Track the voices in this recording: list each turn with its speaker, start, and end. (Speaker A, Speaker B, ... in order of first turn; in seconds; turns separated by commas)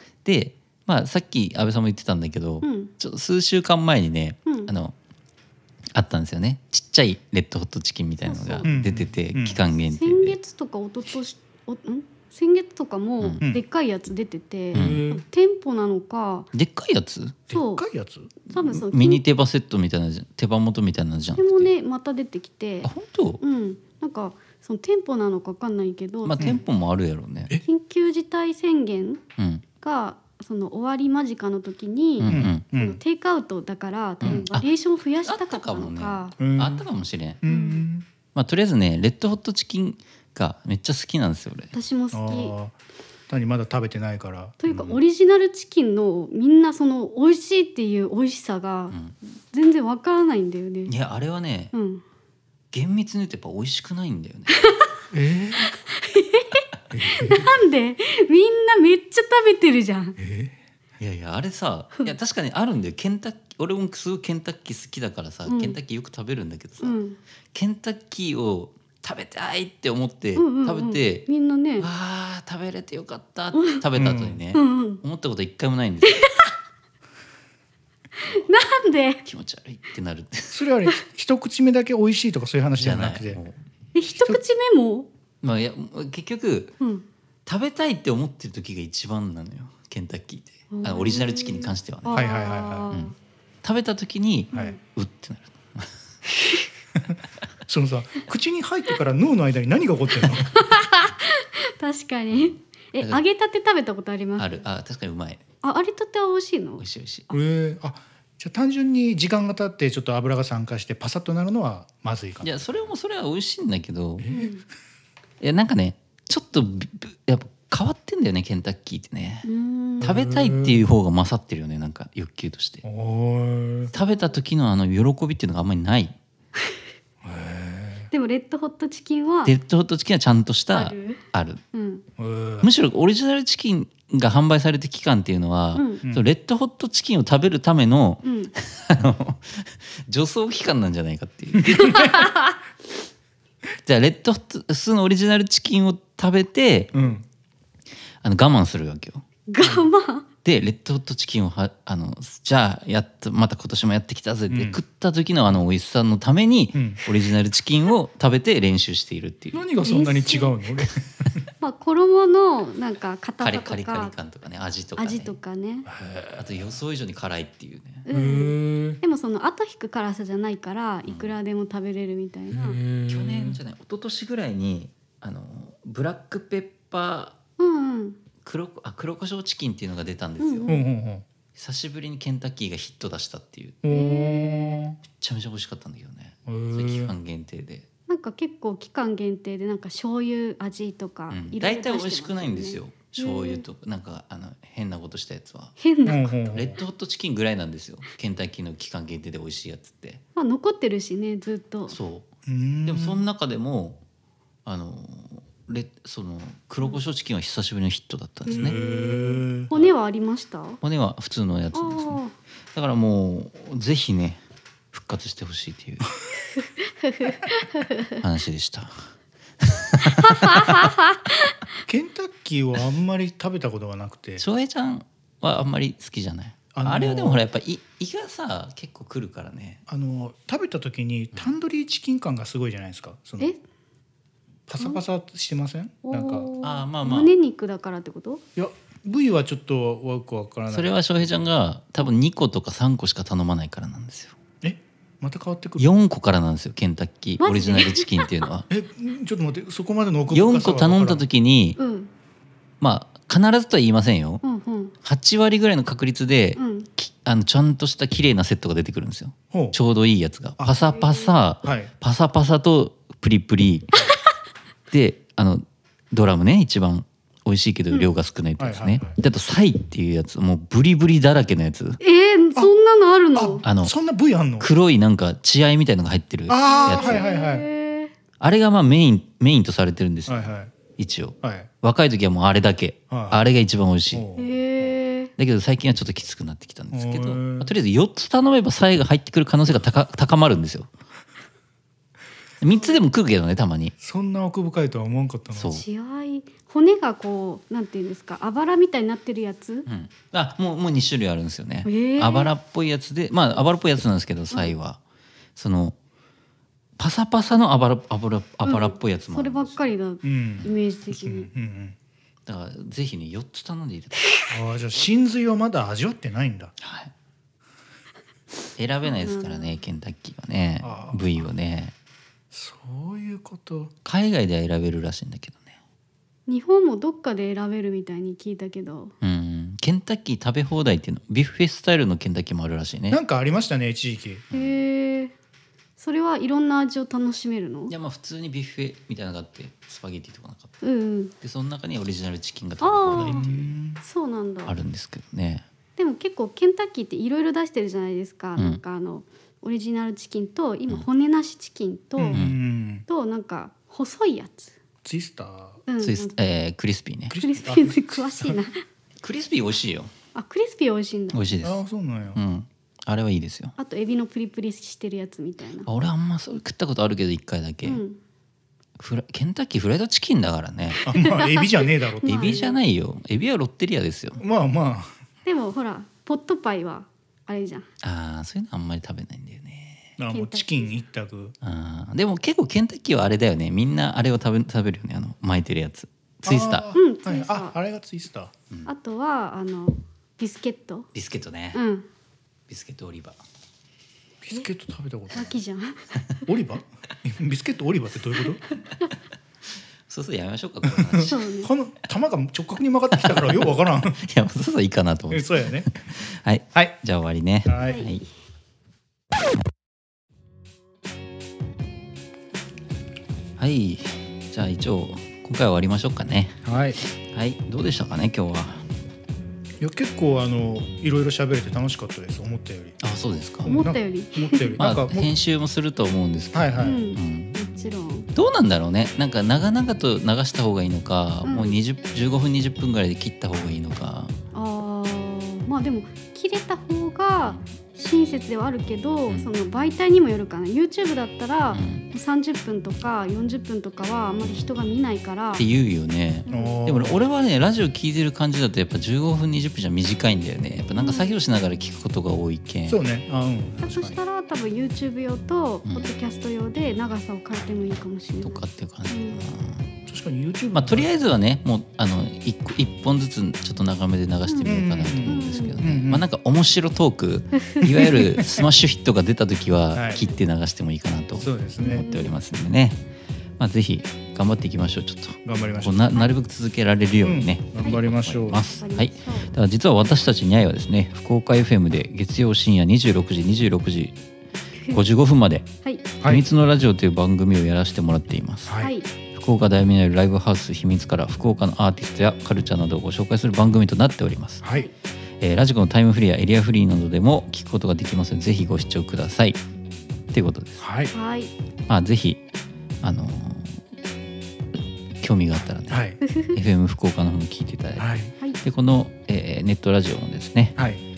Speaker A: 0.2-5.0, Speaker B: 2.6-2.9, Speaker B: 4.5-4.7, Speaker A: 5.9-10.4, Speaker B: 8.3-8.7, Speaker C: 8.7-9.6, Speaker B: 9.9-16.5, Speaker A: 14.7-15.0, Speaker C: 14.8-15.2, Speaker A: 16.5-17.5, Speaker B: 17.5-17.9, Speaker C: 17.5-18.3, Speaker A: 18.5-21.7, Speaker B: 18.5-19.2, Speaker B: 21.4-22.9, Speaker A: 22.8-23.4, Speaker B: 23.4-26.6, Speaker A: 26.2-27.6, Speaker B: 27.6-29.2, Speaker A: 29.4-29.6, Speaker B: 29.8-36.4, Speaker A: 32.2-32.6, Speaker C: 32.3-33.0, Speaker A: 34.2-34.7, Speaker A: 35.2-37.4, Speaker C: 36.4-36.9, Speaker C: 37.4-38.1, Speaker B: 37.5-37.9, Speaker A: 38.4-41.7, Speaker B: 41.7-42.5, Speaker C: 42.1-42.7, Speaker C: 43.3-45.0, Speaker B: 44.6-49.0, Speaker A: 48.9-49.1, Speaker B: 49.5-50.9, Speaker A: 50.9-51.7, Speaker B: 51.7-52.0, Speaker A: 52.7-54.6, Speaker B: 54.5-54.9, Speaker C: 55.1-55.8, Speaker B: 55.9-60.2, Speaker C: 56.9-57.5, Speaker C: 60.2-60.6, Speaker A: 61.0-67.0, Speaker B: 65.5-65.8, Speaker B: 66.8-67.2, Speaker A: 67.5-71.3, Speaker B: 70.4-71.9, Speaker A: 71.8-76.3, Speaker B: 73.5-73.8, Speaker C: 74.0-74.4, Speaker B: 74.5-75.0, Speaker B: 76.0-76.5, Speaker B: 78.2-79.2, Speaker A: 79.2-80.6, Speaker C: 80.5-83.4, Speaker A: 82.8-83.6, Speaker B: 83.9-85.1, Speaker A: 85.4-86.8, Speaker B: 86.8-87.0, Speaker A: 87.5-92.3, Speaker B: 90.7-93.1, Speaker C: 92.1-92.9, Speaker A: 92.9-96.0, Speaker B: 94.5-94.8, Speaker C: 97.0-100.7, Speaker B: 100.5-104.5, Speaker A: 104.4-105.4, Speaker B: 105.6-106.8, Speaker A: 106.8-107.3, Speaker C: 107.3-112.5, Speaker A: 112.4-114.3, Speaker C: 114.2-114.5, Speaker B: 114.3-114.6, Speaker A: 115.4-119.5, Speaker B: 119.5-120.1, Speaker A: 120.0-122.8, Speaker C: 120.0-120.9, Speaker C: 122.8-123.9, Speaker A: 123.9-126.2, Speaker B: 123.9-124.4, Speaker C: 127.2-128.1, Speaker B: 128.1-129.5, Speaker A: 129.4-131.6, Speaker B: 130.7-131.2, Speaker B: 131.7-132.0, Speaker C: 132.2-132.7, Speaker A: 132.6-142.6, Speaker B: 135.8-136.0, Speaker B: 138.2-138.5, Speaker C: 141.7-142.2, Speaker B: 141.9-142.2, Speaker A: 143.8-147.1, Speaker C: 146.9-147.2, Speaker A: 148.2-149.2, Speaker B: 149.5-150.3, Speaker A: 150.4-160.0, Speaker C: 154.5-154.8, Speaker C: 156.7-157.0, Speaker C: 159.5-161.0, Speaker B: 159.8-160.6, Speaker B: 161.6-164.1, Speaker A: 163.4-165.3, Speaker B: 165.0-165.9, Speaker C: 165.9-166.4, Speaker A: 166.3-168.1, Speaker B: 168.1-172.8, Speaker C: 168.1-169.0, Speaker A: 171.1-171.4, Speaker C: 172.5-173.6, Speaker A: 173.1-177.4, Speaker B: 177.6-178.2, Speaker A: 178.4-180.7, Speaker B: 180.4-180.8, Speaker C: 180.7-181.2, Speaker A: 181.6-183.8, Speaker C: 183.8-185.0, Speaker B: 183.9-184.8, Speaker A: 185.1-187.9, Speaker C: 186.5-187.1, Speaker B: 188.1-193.6, Speaker A: 191.3-195.8, Speaker B: 195.8-196.3, Speaker C: 196.1-196.8, Speaker A: 196.5-200.2, Speaker B: 200.4-202.0, Speaker A: 201.9-202.3, Speaker C: 202.5-203.2, Speaker A: 202.8-204.0, Speaker A: 204.7-208.8, Speaker C: 208.5-209.7, Speaker B: 208.5-210.8, Speaker A: 210.8-212.2, Speaker B: 211.7-212.3, Speaker A: 212.7-214.4, Speaker A: 214.9-216.2, Speaker B: 216.6-218.2, Speaker A: 218.2-219.1, Speaker A: 219.6-220.9, Speaker B: 220.2-221.5, Speaker C: 221.9-224.4, Speaker A: 224.4-229.8, Speaker C: 226.7-227.4, Speaker C: 229.9-233.5, Speaker C: 234.7-236.5, Speaker B: 236.0-238.4, Speaker A: 236.6-237.3, Speaker C: 238.6-241.0, Speaker A: 240.7-244.3, Speaker C: 244.6-245.9, Speaker A: 245.8-248.7, Speaker B: 247.4-248.3, Speaker C: 248.7-251.2, Speaker A: 250.3-251.8, Speaker B: 251.8-252.1, Speaker A: 252.8-254.4, Speaker B: 254.4-254.9, Speaker A: 255.0-264.0, Speaker B: 256.6-256.9, Speaker C: 259.5-259.8, Speaker B: 260.9-261.4, Speaker C: 261.6-261.9, Speaker A: 264.9-272.0, Speaker C: 268.6-269.1, Speaker B: 272.0-273.6, Speaker C: 273.4-274.7, Speaker A: 273.6-273.9, Speaker A: 274.6-277.2, Speaker C: 276.5-277.7, Speaker B: 276.6-278.1, Speaker A: 278.4-284.3, Speaker C: 280.3-280.7, Speaker C: 281.4-281.7, Speaker C: 283.1-283.5, Speaker C: 284.1-284.5, Speaker B: 284.4-285.3, Speaker A: 285.4-290.9, Speaker C: 286.9-287.7, Speaker A: 292.6-293.9, Speaker C: 294.0-295.7, Speaker A: 295.5-295.9, Speaker B: 295.7-299.9, Speaker A: 299.9-305.0, Speaker B: 301.9-302.5, Speaker A: 305.6-306.0, Speaker A: 307.0-309.8, Speaker B: 308.6-311.5, Speaker C: 310.2-312.0, Speaker A: 312.5-314.2, Speaker C: 314.5-316.7, Speaker A: 316.8-317.1, Speaker A: 318.8-321.9, Speaker B: 319.1-319.8, Speaker C: 320.8-321.4, Speaker C: 322.5-323.9, Speaker A: 324.1-325.7, Speaker B: 326.5-329.1, Speaker A: 329.2-333.2, Speaker C: 333.1-334.4, Speaker A: 334.5-334.8, Speaker B: 334.5-335.3, Speaker B: 336.0-337.9, Speaker A: 337.9-340.8, Speaker B: 340.8-341.4, Speaker A: 341.4-343.8, Speaker B: 342.8-343.5, Speaker C: 343.1-344.0, Speaker B: 344.0-344.8, Speaker A: 344.7-345.6, Speaker B: 346.0-352.5, Speaker C: 352.2-353.1, Speaker A: 352.3-352.6, Speaker B: 353.1-354.8, Speaker C: 355.0-355.8, Speaker B: 355.9-356.4, Speaker A: 356.0-357.4, Speaker C: 357.3-358.6, Speaker B: 357.3-358.8, Speaker A: 359.2-360.1, Speaker B: 360.4-361.4, Speaker A: 361.3-361.8, Speaker C: 361.6-362.4, Speaker A: 362.4-363.7, Speaker B: 363.8-365.9, Speaker A: 365.9-368.0, Speaker B: 367.9-368.2, Speaker A: 369.0-371.0, Speaker B: 371.0-372.8, Speaker C: 371.1-372.6, Speaker A: 372.2-374.4, Speaker C: 374.4-375.1, Speaker B: 375.5-377.9, Speaker A: 378.0-380.1, Speaker C: 380.2-381.5, Speaker B: 380.3-381.0, Speaker A: 381.6-386.8, Speaker C: 386.4-388.5, Speaker B: 386.9-387.7, Speaker B: 388.9-391.1, Speaker A: 391.1-391.8, Speaker B: 391.7-392.1, Speaker A: 392.7-393.4, Speaker C: 394.4-395.5, Speaker B: 395.3-396.1, Speaker C: 396.5-398.6, Speaker A: 400.1-401.5, Speaker C: 400.9-404.2, Speaker B: 401.3-401.7, Speaker A: 403.1-408.2, Speaker C: 405.3-405.9, Speaker C: 407.6-408.0, Speaker A: 413.6-418.9, Speaker C: 416.6-417.0, Speaker C: 419.8-423.0, Speaker A: 423.0-423.8, Speaker C: 423.6-425.3, Speaker B: 423.7-424.8, Speaker A: 424.8-427.6, Speaker C: 426.5-427.0, Speaker B: 426.8-428.3, Speaker A: 428.3-434.3, Speaker B: 431.4-431.8, Speaker B: 434.5-445.7, Speaker A: 441.7-442.1, Speaker A: 445.6-453.0, Speaker B: 446.5-446.8, Speaker C: 446.5-447.2, Speaker B: 450.9-451.4, Speaker C: 452.9-454.2, Speaker B: 453.8-459.4, Speaker A: 458.4-459.9, Speaker C: 460.1-461.1, Speaker A: 460.7-473.0, Speaker C: 464.6-466.2, Speaker B: 465.3-465.8, Speaker B: 467.6-468.4, Speaker C: 469.9-470.2, Speaker B: 470.1-470.4, Speaker C: 471.4-472.1, Speaker B: 471.8-472.3, Speaker A: 473.6-484.2, Speaker C: 475.5-476.2, Speaker C: 477.2-478.6, Speaker B: 478.7-479.5, Speaker B: 484.8-485.1, Speaker A: 484.9-485.7, Speaker C: 486.2-486.5, Speaker A: 486.2-488.7, Speaker C: 488.6-488.9, Speaker B: 488.8-489.1, Speaker A: 489.3-494.6, Speaker C: 494.6-494.9, Speaker B: 494.7-494.9, Speaker A: 495.4-499.6, Speaker A: 500.3-500.9, Speaker C: 500.8-501.1, Speaker B: 501.1-501.5, Speaker A: 501.9-502.4, Speaker A: 503.0-503.8, Speaker A: 505.2-510.8, Speaker C: 505.9-506.2, Speaker B: 506.2-506.6, Speaker C: 508.0-508.3